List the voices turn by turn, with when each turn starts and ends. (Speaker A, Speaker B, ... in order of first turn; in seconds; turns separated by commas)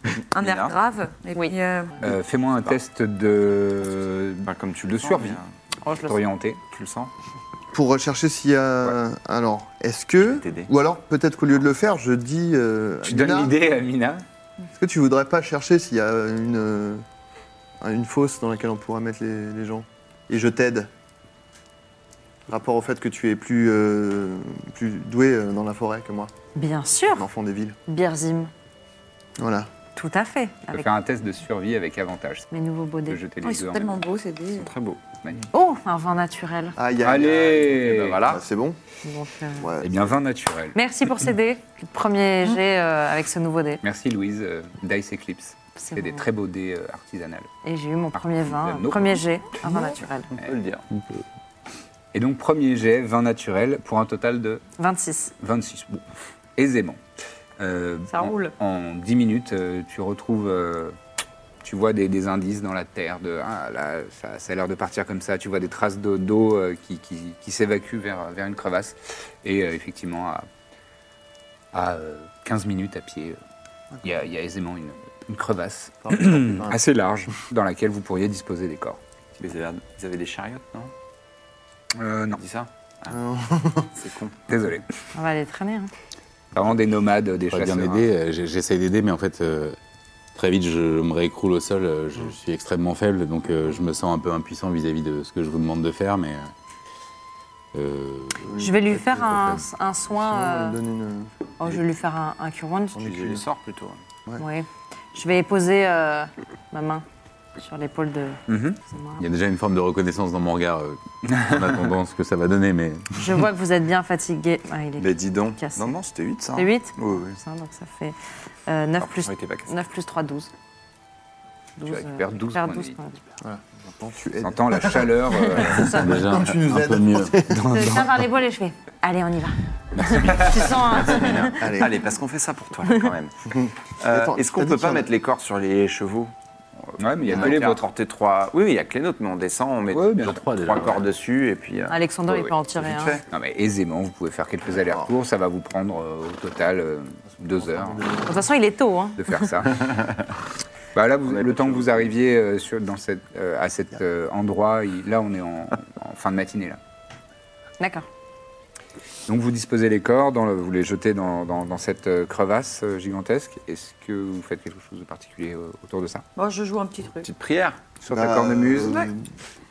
Speaker A: 0.3-2.0, Speaker B: 0.4-0.7, Speaker C: 2.0-5.4, Speaker B: 4.4-5.5, Speaker D: 5.8-6.2, Speaker C: 6.0-6.6, Speaker B: 6.7-7.1, Speaker E: 7.7-13.6, Speaker B: 10.2-10.7, Speaker C: 13.0-14.2, Speaker E: 14.7-17.0, Speaker E: 17.8-20.9, Speaker E: 22.5-26.3, Speaker D: 26.5-27.2, Speaker E: 27.1-27.8, Speaker D: 27.9-28.5, Speaker E: 29.4-29.7, Speaker D: 29.9-30.9, Speaker C: 30.7-32.5, Speaker D: 32.5-33.2, Speaker C: 33.1-34.0, Speaker A: 33.4-34.7, Speaker B: 34.6-35.0, Speaker D: 35.5-36.8, Speaker E: 36.8-38.8, Speaker C: 37.0-38.2, Speaker B: 37.4-38.4, Speaker D: 39.0-39.7, Speaker E: 39.6-40.1, Speaker C: 39.8-40.8, Speaker D: 40.7-43.8, Speaker C: 43.8-47.5, Speaker D: 45.8-46.2, Speaker D: 47.6-50.3, Speaker C: 48.1-49.2, Speaker B: 50.4-50.8, Speaker C: 52.1-54.6, Speaker D: 54.8-55.3, Speaker C: 55.4-56.0, Speaker C: 56.6-57.0, Speaker C: 57.6-61.0, Speaker A: 58.1-58.5, Speaker C: 61.6-70.5, Speaker C: 71.7-73.4, Speaker C: 74.0-79.0, Speaker E: 76.0-76.8, Speaker B: 79.4-80.9, Speaker C: 81.9-82.4, Speaker B: 82.4-83.2, Speaker E: 83.1-83.9, Speaker B: 83.9-84.4, Speaker C: 84.5-84.8, Speaker D: 85.1-85.9, Speaker C: 86.5-88.1, Speaker F: 87.5-89.8, Speaker F: 90.3-96.5, Speaker F: 97.7-98.5, Speaker E: 98.5-99.1, Speaker D: 98.6-100.8, Speaker F: 99.0-99.6, Speaker E: 100.1-101.3, Speaker D: 101.6-103.1, Speaker E: 103.0-103.4, Speaker B: 103.0-104.0, Speaker D: 104.4-107.0, Speaker D: 107.6-109.2, Speaker C: 108.5-108.8, Speaker F: 109.2-113.2, Speaker D: 113.2-115.9, Speaker B: 115.0-117.4, Speaker D: 116.5-118.2, Speaker D: 118.7-120.5, Speaker B: 119.0-119.8, Speaker D: 121.8-123.2, Speaker C: 121.8-123.0, Speaker E: 123.4-127.6, Speaker C: 124.4-126.0, Speaker D: 125.3-126.2, Speaker F: 126.0-128.3, Speaker D: 127.6-131.7, Speaker F: 130.0-130.6, Speaker B: 130.3-133.3, Speaker E: 131.6-132.0, Speaker D: 132.8-133.1, Speaker E: 133.5-135.1, Speaker B: 134.0-136.3, Speaker C: 137.0-137.8, Speaker B: 137.2-142.0, Speaker C: 139.9-140.4, Speaker F: 140.2-141.1, Speaker D: 141.9-143.2, Speaker B: 142.8-143.2, Speaker C: 143.3-148.1, Speaker E: 144.7-145.1, Speaker E: 147.4-148.5, Speaker D: 148.2-149.5, Speaker C: 149.2-149.8, Speaker B: 149.7-150.1, Speaker C: 150.9-156.8, Speaker B: 151.2-152.1, Speaker D: 157.8-158.1, Speaker C: 159.3-166.2, Speaker A: 166.3-167.3, Speaker B: 167.2-167.8, Speaker C: 168.0-169.0, Speaker E: 168.1-169.3, Speaker A: 168.8-169.1